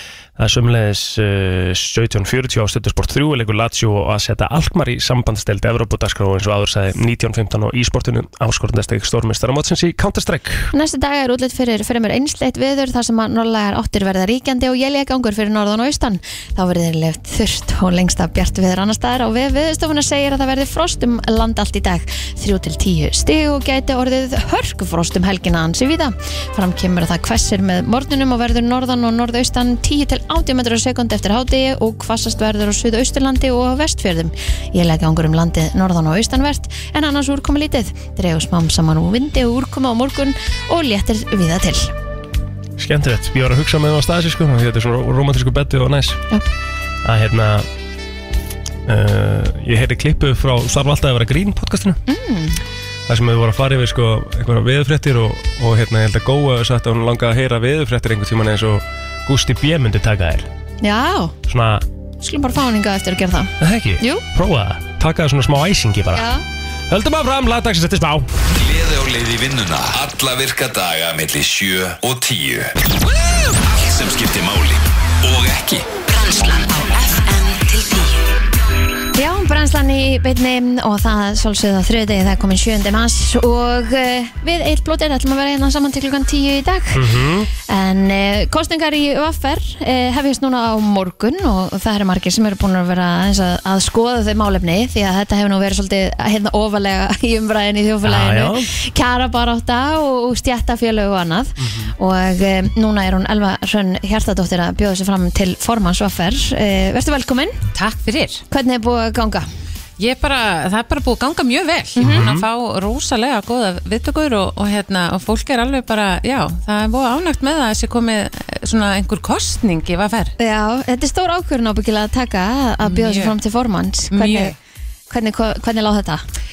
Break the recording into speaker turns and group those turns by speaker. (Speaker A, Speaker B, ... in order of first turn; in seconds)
Speaker A: 0.4-10.7, 42.8-46.2, 47.0-47.7, 48.9-52.0, 53.1-60.5, 61.5-61.8, 63.6-66.3, 66.9-68.3, 86.9-87.5, 98.0-98.7, 101.6-101.9, 112.0-112.5
Speaker B: 10.7-41.9, 52.1-52.6, 60.8-61.3, 62.2-64.2, 66.1-66.4, 79.1-87.0, 87.7-107.6, 108.5-109.5, 112.0-112.3, 120.4-124.5, 125.1-126.2
Speaker C: 68.5-72.7, 73.4-75.9
Speaker D: 76.1-78.2
Speaker E: 107.7-108.4, 110.0-120.3, 122.8-123.3, 124.1-124.5